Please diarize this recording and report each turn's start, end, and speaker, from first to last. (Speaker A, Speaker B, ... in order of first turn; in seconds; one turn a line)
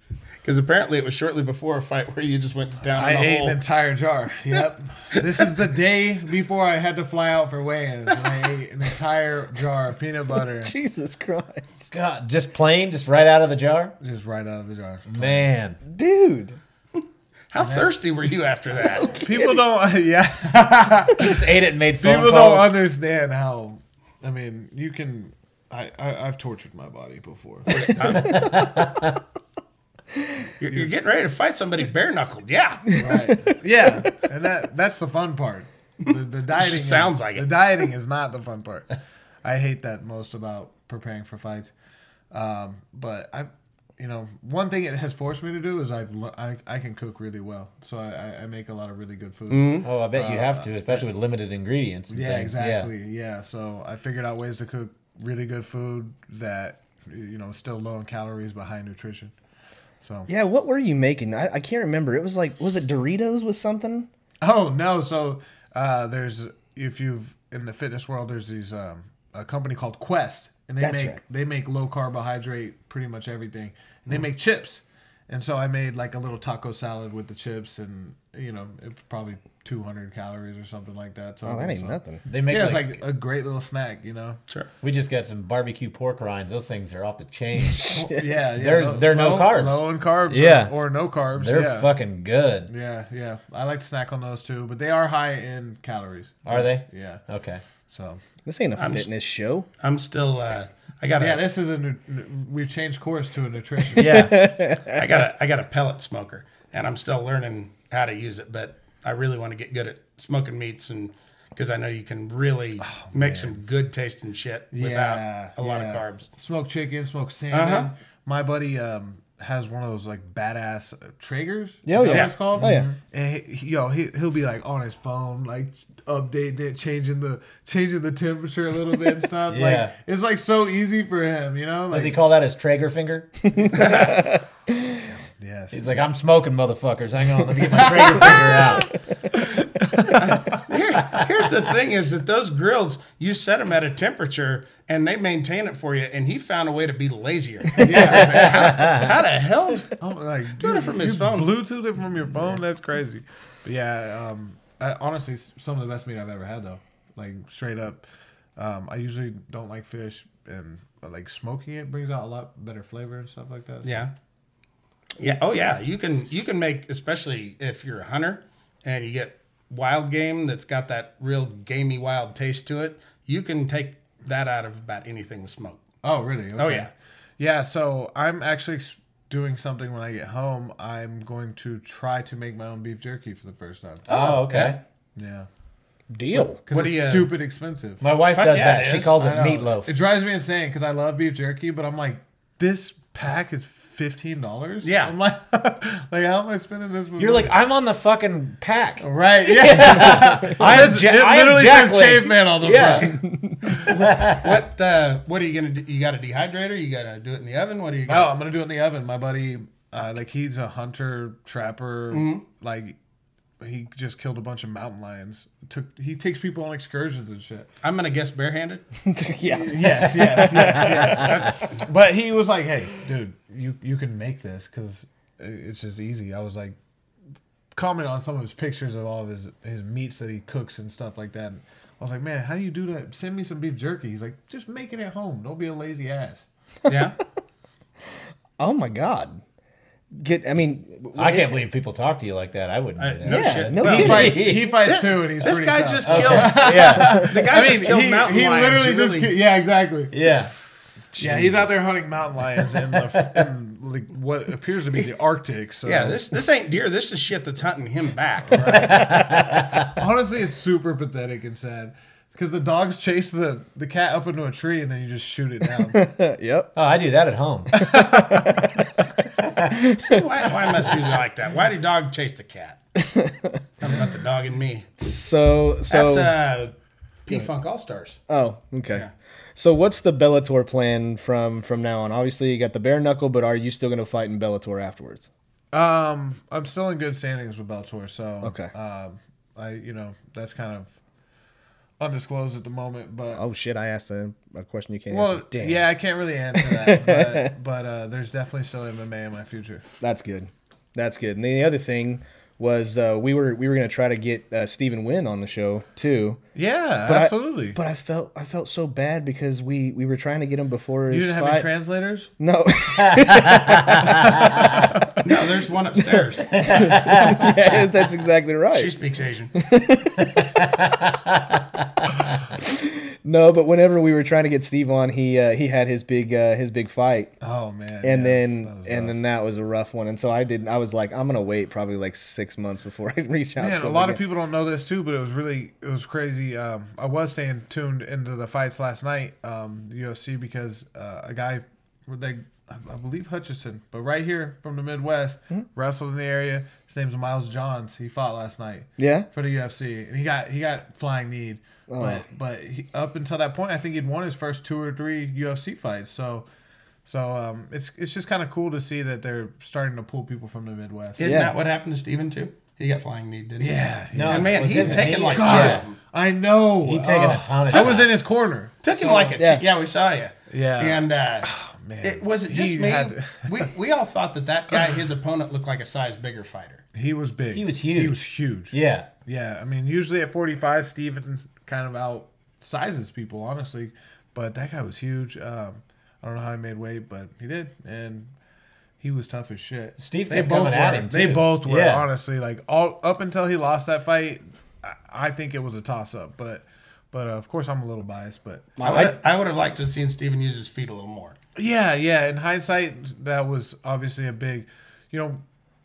Speaker A: 0.4-3.6
Speaker B: 2.9-10.7
Speaker C: 10.6-11.9
Speaker D: 11.9-14.0
Speaker B: 14.0-15.4
Speaker D: 15.1-15.8
Speaker C: 15.9-16.6
Speaker A: 17.5-19.1
Speaker B: 17.6-17.9
Speaker B: 19.1-28.1
Speaker C: 19.2-19.5
Speaker D: 21.1-22.8
Speaker A: 27.7-28.6
Speaker D: 28.2-29.2
Speaker A: 30.6-33.3
Speaker B: 33.0-38.9
Speaker A: 36.0-37.8
Speaker B: 39.4-41.7
Speaker B: 42.3-51.1
Speaker A: 49.5-49.9
Speaker D: 49.8-52.9
Speaker B: 52.1-59.3
Speaker B: 60.0-60.3
Speaker C: 60.3-64.1
Speaker B: 64.4-84.4
Speaker C: 70.8-71.2
Speaker C: 81.5-82.2
Speaker D: 82.3-83.0
Speaker D: 84.8-90.7
Speaker B: 87.9-91.9
Speaker D: 91.4-92.7
Speaker B: 92.7-97.2
Speaker D: 96.5-97.6
Speaker B: 97.9-98.2
Speaker C: 98.5-99.7
Speaker A: 98.8-99.1
Speaker A: 99.8-101.4
Speaker B: 101.2-104.3
Speaker D: 104.0-104.6
Speaker C: 104.0-105.0
Speaker A: 104.9-116.3
Speaker B: 112.8-113.6
Speaker B: 114.7-132.2
Speaker A: 117.5-117.9
Speaker C: 121.9-122.9
Speaker A: 122.0-122.4
Speaker D: 129.5-129.9
Speaker D: 131.9-133.3
Speaker C: 133.6-134.4
Speaker A: 133.7-134.2
Speaker B: 135.1-136.0
Speaker D: 135.7-138.9
Speaker B: 137.8-138.6
Speaker A: 140.2-150.0
Speaker B: 147.8-148.9
Speaker D: 148.2-149.1
Speaker B: 150.0-158.1
Speaker A: 150.6-151.5
Speaker B: 158.6-164.1
Speaker A: 163.8-164.1
Speaker A: 165.2-175.8
Speaker B: 176.0-184.2
Speaker A: 176.6-176.9
Speaker A: 184.1-184.8
Speaker D: 184.1-184.8
Speaker B: 185.2-185.5
Speaker C: 186.1-186.6
Speaker B: 186.4-188.0
Speaker A: 186.7-187.3
Speaker D: 188.0-189.9
Speaker A: 188.3-189.2
Speaker B: 189.1-197.6
Speaker A: 194.8-195.2
Speaker D: 197.2-203.2
Speaker B: 199.0-203.9
Speaker C: 203.2-203.8
Speaker D: 203.8-204.6
Speaker A: 203.9-208.3
Speaker B: 208.1-213.0
Speaker A: 212.1-212.4
Speaker B: 213.6-217.7
Speaker A: 217.8-218.8
Speaker C: 219.1-221.5
Speaker B: 219.5-226.8
Speaker A: 220.6-221.8
Speaker B: 227.7-236.5
Speaker A: 236.9-237.2
Speaker C: 238.6-239.4
Speaker C: 240.1-241.7
Speaker D: 241.2-244.8
Speaker A: 243.0-249.3
Speaker C: 243.3-244.5
Speaker B: 243.8-250.2
Speaker D: 246.0-247.3
Speaker D: 250.1-250.5
Speaker A: 251.1-251.7
Speaker B: 251.2-256.2
Speaker A: 255.8-258.7
Speaker B: 258.5-266.0
Speaker D: 258.7-259.9
Speaker C: 265.9-266.7
Speaker D: 266.8-267.9
Speaker B: 267.7-268.6
Speaker C: 267.8-268.9
Speaker D: 269.4-269.8
Speaker C: 269.6-271.0
Speaker A: 270.0-272.8
Speaker C: 273.0-273.6
Speaker A: 273.8-274.9
Speaker C: 275.0-276.3
Speaker A: 275.9-276.7
Speaker A: 277.2-278.2
Speaker C: 278.3-285.3
Speaker B: 285.7-290.9
Speaker C: 288.4-288.7
Speaker B: 292.0-293.4
Speaker C: 293.4-295.9
Speaker B: 295.1-299.9
Speaker C: 296.6-297.5
Speaker C: 300.0-306.4
Speaker B: 306.6-307.8
Speaker C: 307.1-311.7
Speaker B: 311.1-312.3
Speaker C: 312.4-315.4
Speaker D: 312.9-314.9
Speaker A: 315.2-316.6
Speaker C: 316.2-318.9
Speaker D: 316.5-317.8
Speaker A: 318.7-319.6
Speaker C: 319.6-320.6
Speaker D: 320.3-321.8
Speaker C: 322.6-327.3
Speaker B: 327.4-329.2
Speaker C: 328.0-334.2
Speaker B: 333.6-356.5
Speaker C: 349.0-349.3
Speaker C: 351.9-352.2
Speaker B: 357.1-361.4
Speaker A: 361.2-366.0
Speaker C: 361.2-361.6
Speaker B: 363.6-369.4
Speaker D: 364.1-365.9
Speaker D: 366.8-368.1
Speaker A: 367.7-368.1
Speaker A: 368.8-371.5
Speaker C: 369.4-369.6
Speaker B: 370.5-373.7
Speaker A: 372.0-376.8
Speaker B: 376.9-388.3
Speaker D: 377.5-378.2
Speaker D: 378.7-379.1
Speaker B: 389.0-398.7
Speaker D: 390.0-392.1
Speaker C: 398.8-399.2
Speaker A: 398.8-401.4
Speaker B: 401.6-405.4